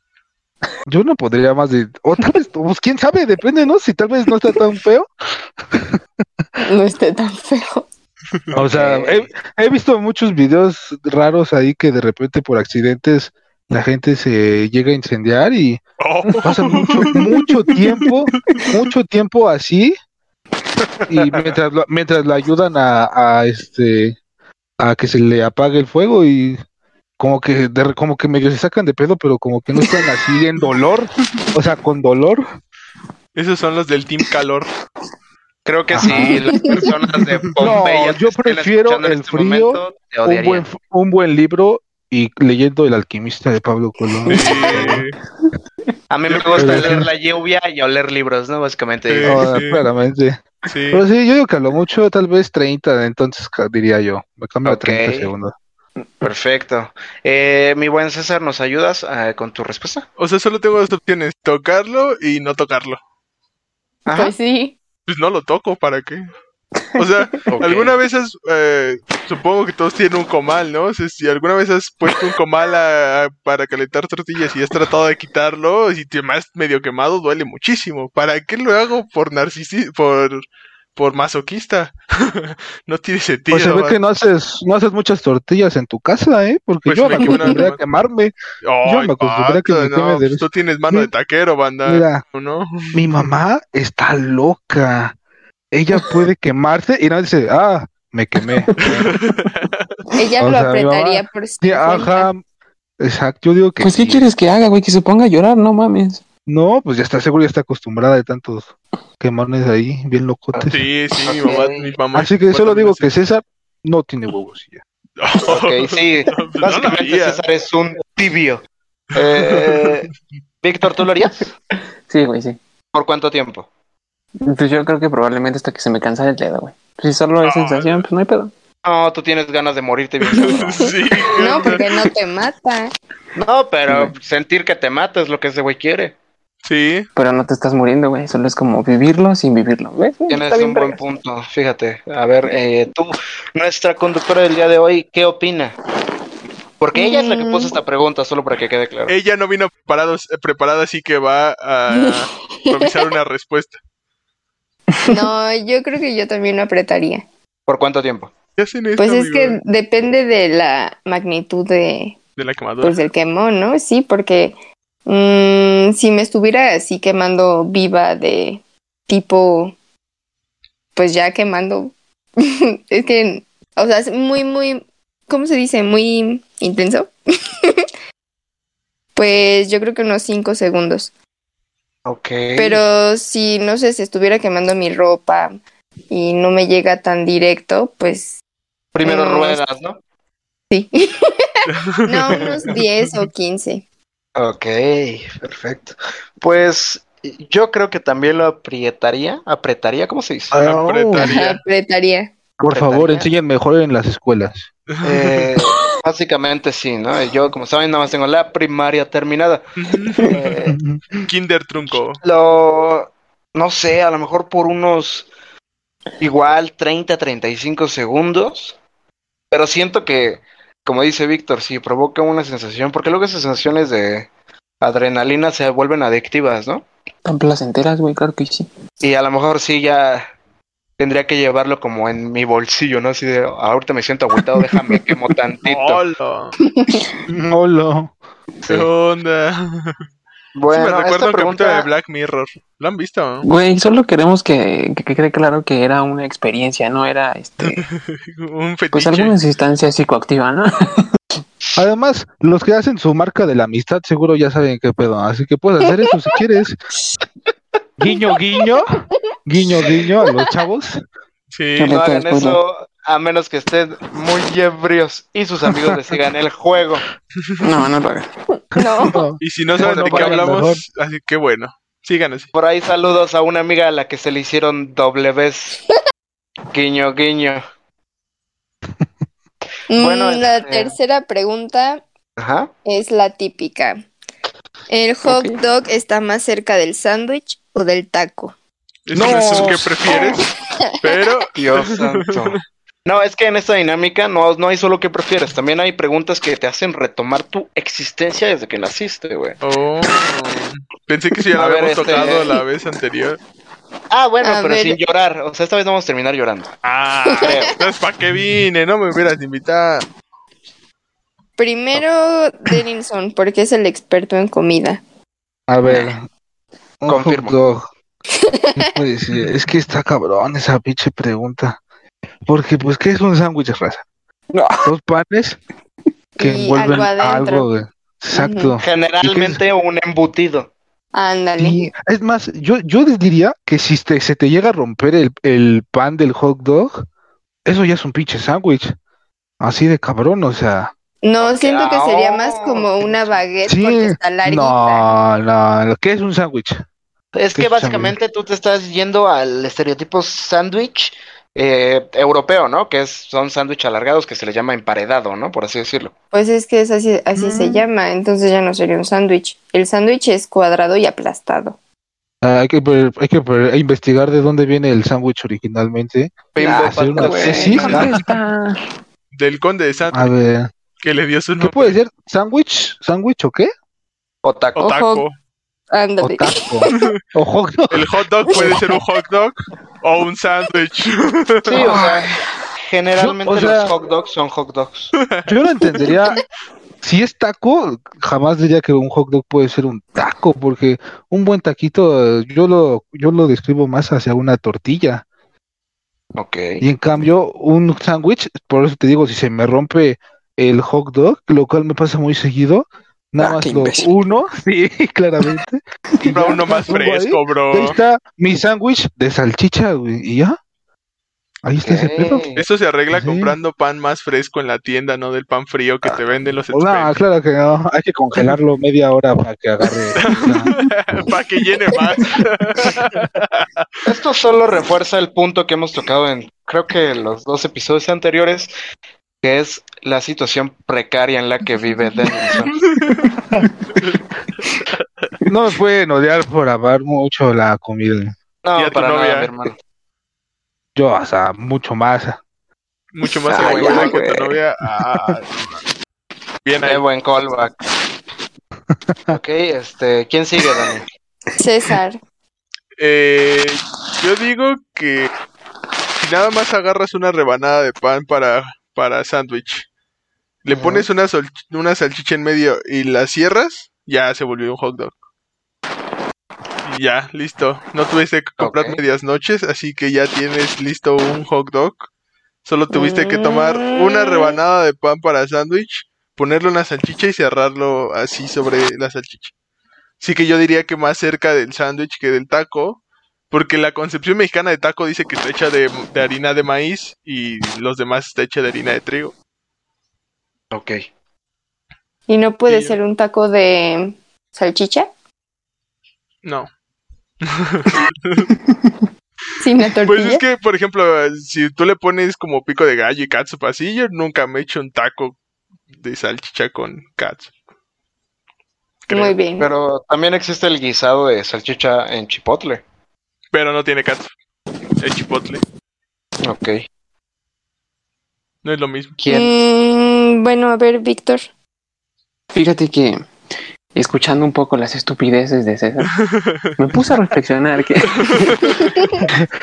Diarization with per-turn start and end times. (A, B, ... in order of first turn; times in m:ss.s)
0:00.9-0:05.1 A
0:05.7-0:06.0 A
0:06.6-0:07.9 B
0:08.5-0:15.8 A
0:08.7-0:09.3 C
0:16.0-0:18.8 D
0:16.4-0:19.9 A
0:21.1-0:24.2 A
0:24.8-0:26.6 A
0:27.2-0:32.4 A
0:33.3-0:34.7 D
0:35.6-0:40.6 C
0:35.9-0:36.4 A
0:36.0-0:36.8 E
0:37.6-0:45.0 A
0:44.2-0:45.0 E
0:44.3-0:45.2 D
0:46.1-0:49.4 C
0:46.3-0:47.0 D
0:46.5-0:47.1 A
0:49.1-0:49.9 D
0:49.2-0:55.5 A
0:50.6-0:51.0 D
0:54.6-0:55.3 C
0:56.2-1:00.0 C
1:00.2-1:03.0 D
1:04.0-1:04.3 C
1:04.1-1:04.8 B
1:05.1-1:06.3 D
1:07.0-1:20.4 D
1:07.5-1:07.9 C
1:21.0-1:24.0 D
1:23.5-1:28.3 A
1:26.8-1:27.8 D
1:28.6-1:33.3 D
1:28.8-1:31.1 A
1:31.8-1:32.2 A
1:32.9-1:35.1 A
1:35.7-1:39.1 A
1:38.4-1:39.1 E
1:38.8-1:40.0 D
1:40.1-1:42.3 B
1:40.4-1:42.4 A
1:43.0-1:44.3 A
1:43.8-1:46.2 E
1:46.4-1:50.8 A
1:50.6-1:53.1 D
1:51.2-1:51.9 C
1:52.1-1:54.8 A
1:55.2-1:57.4 D
1:55.5-1:58.6 C
1:59.1-2:00.1 C
1:59.3-2:00.0 D
2:00.6-2:01.5 C
2:02.1-2:02.6 E
2:02.9-2:03.7 C
2:04.4-2:08.5 E
2:07.4-2:08.1 D
2:08.8-2:10.9 C
2:10.3-2:11.8 D
2:10.8-2:12.9 B
2:13.3-2:16.1 C
2:13.9-2:14.1 E
2:16.6-2:17.1 D
2:17.2-2:21.0 E
2:20.3-2:25.8 C
2:26.8-2:29.1 C
2:26.9-2:27.8 B
2:29.1-2:33.8 D
2:31.9-2:32.9 B
2:34.9-2:35.2 E
2:35.0-2:37.2 B
2:37.7-2:38.3 C
2:38.6-2:39.6 D
2:39.0-2:42.2 B
2:42.4-2:43.0 D
2:42.8-2:44.5 B
2:45.0-2:49.7 B
2:51.0-2:57.1 B
2:59.2-3:01.1 B
3:02.0-3:02.8 C
3:02.6-3:05.5 B
3:06.1-3:08.4 B
3:08.9-3:10.0 C
3:09.0-3:09.6 B
3:10.7-3:13.8 B
3:11.7-3:13.2 D
3:14.4-3:20.5 C
3:20.5-3:21.4 A
3:20.6-3:21.6 D
3:21.2-3:22.3 B
3:22.6-3:24.7 A
3:22.7-3:23.3 C
3:24.9-3:25.4 D
3:25.0-3:29.6 C
3:29.8-3:30.4 D
3:30.2-3:30.8 C
3:30.7-3:31.2 A
3:31.2-3:32.2 D
3:32.2-3:35.3 C
3:36.2-3:38.8 C
3:39.5-3:44.3 C
3:44.8-3:46.8 C
3:47.2-3:48.7 E
3:49.0-3:50.2 C
3:51.0-3:56.0 C
3:54.8-3:55.0 E
3:55.6-3:56.5 D
3:56.6-3:57.0 B
3:57.3-3:58.1 A
3:58.7-4:00.0 D
4:00.6-4:01.9 C
4:00.7-4:03.4 D
4:03.4-4:07.8 E
4:07.6-4:09.4 D
4:08.9-4:11.1 E
4:11.8-4:16.8 A
4:18.0-4:18.9 A
4:19.4-4:21.0 A
4:21.5-4:22.0 D
4:21.8-4:22.6 E
4:21.8-4:27.0 C
4:27.6-4:28.3 E
4:28.7-4:29.2 B
4:28.8-4:30.8 A
4:29.4-4:32.5 D
4:29.8-4:30.5 C
4:32.5-4:35.8 C
4:36.7-4:37.6 C
4:39.9-4:42.0 B
4:40.0-4:40.9 C
4:42.4-4:42.7 C
4:42.8-4:44.0 B
4:44.9-4:48.5 B
4:45.2-4:45.6 E
4:49.1-4:50.4 D
4:49.1-4:50.1 A
4:50.0-4:50.9 B
4:51.0-4:52.6 D
4:51.6-4:59.6 C
4:59.6-5:03.4 D
5:01.6-5:02.6 C
5:04.1-5:06.7 C
5:04.4-5:05.0 B
5:06.8-5:10.0 D
5:07.4-5:07.7 C
5:11.6-5:15.0 B
5:15.7-5:16.2 A
5:15.8-5:16.1 E
5:17.0-5:17.8 A
5:17.1-5:17.6 C
5:18.4-5:18.7 B
5:18.8-5:21.8 A
5:22.4-5:24.0 A
5:24.5-5:24.9 E
5:24.8-5:25.6 A
5:26.4-5:27.7 B
5:26.4-5:29.6 A
5:28.3-5:28.8 B
5:28.8-5:30.7 C
5:31.1-5:31.8 B
5:31.6-5:37.0 A
5:37.6-5:38.9 A
5:39.6-5:40.9 A
5:41.2-5:45.1 B
5:41.4-5:43.4 C
5:43.7-5:46.8 A
5:47.3-5:56.1 C
5:47.5-5:48.1 A
5:56.3-6:01.8 B
6:02.4-6:08.2 A
6:06.5-6:08.2 C
6:06.6-6:08.8 E
6:09.3-6:10.3 D
6:10.1-6:10.7 A
6:11.0-6:12.0 D
6:11.6-6:13.7 A
6:14.4-6:14.8 C
6:14.8-6:15.3 D
6:14.8-6:15.2 B
6:15.9-6:16.9 B
6:16.2-6:18.9 A
6:17.9-6:22.0 D
6:21.7-6:22.3 C
6:22.8-6:25.1 C
6:23.2-6:23.9 A
6:25.2-6:25.5 D
6:25.4-6:26.4 A
6:27.0-6:35.2 A
6:36.4-6:36.8 C
6:36.8-6:50.6 A
6:43.4-6:44.1 E
6:46.2-6:46.5 E
6:46.3-6:48.0 D
6:51.6-6:52.4 A
6:51.8-6:52.6 C
6:52.6-6:57.2 D
6:53.1-6:53.6 A
6:56.7-7:00.7 A
7:00.2-7:03.8 D
7:04.0-7:08.7 C
7:09.4-7:12.8 C
7:12.8-7:13.2 D
7:13.2-7:13.7 E
7:14.0-7:15.3 D
7:15.5-7:18.3 A
7:18.6-7:19.8 C
7:18.7-7:19.5 D
7:21.0-7:22.4 A
7:23.1-7:25.8 D
7:23.2-7:24.6 E
7:23.6-7:24.1 C
7:26.6-7:27.0 D
7:26.8-7:27.8 C
7:29.1-7:29.4 A
7:29.3-7:31.0 C
7:31.6-7:32.2 B
7:33.0-7:35.3 D
7:36.2-7:39.8 D
7:40.6-7:45.1 D
7:40.7-7:41.1 C
7:46.8-7:52.1 D
7:48.6-7:49.0 C
7:52.6-7:59.5 D
7:52.9-7:54.6 B
8:00.2-8:03.0 D
8:03.5-8:09.3 D
8:10.7-8:11.0 C
8:12.3-8:15.1 B
8:12.7-8:13.0 D
8:16.4-8:16.7 D
8:17.4-8:18.5 D
8:18.5-8:19.0 E
8:19.6-8:20.4 B
8:20.0-8:25.4 D
8:25.9-8:27.5 D
8:29.1-8:29.4 D
8:29.1-8:29.7 B
8:29.6-8:32.8 C
8:33.5-8:34.3 D
8:35.0-8:35.6 D
8:36.4-8:36.8 C
8:38.6-8:39.2 D
8:39.2-8:39.5 C
8:39.3-8:41.4 B
8:42.5-8:43.2 E
8:43.9-8:46.1 E
8:46.2-8:46.7 D
8:46.8-8:48.9 E
8:48.2-8:48.8 D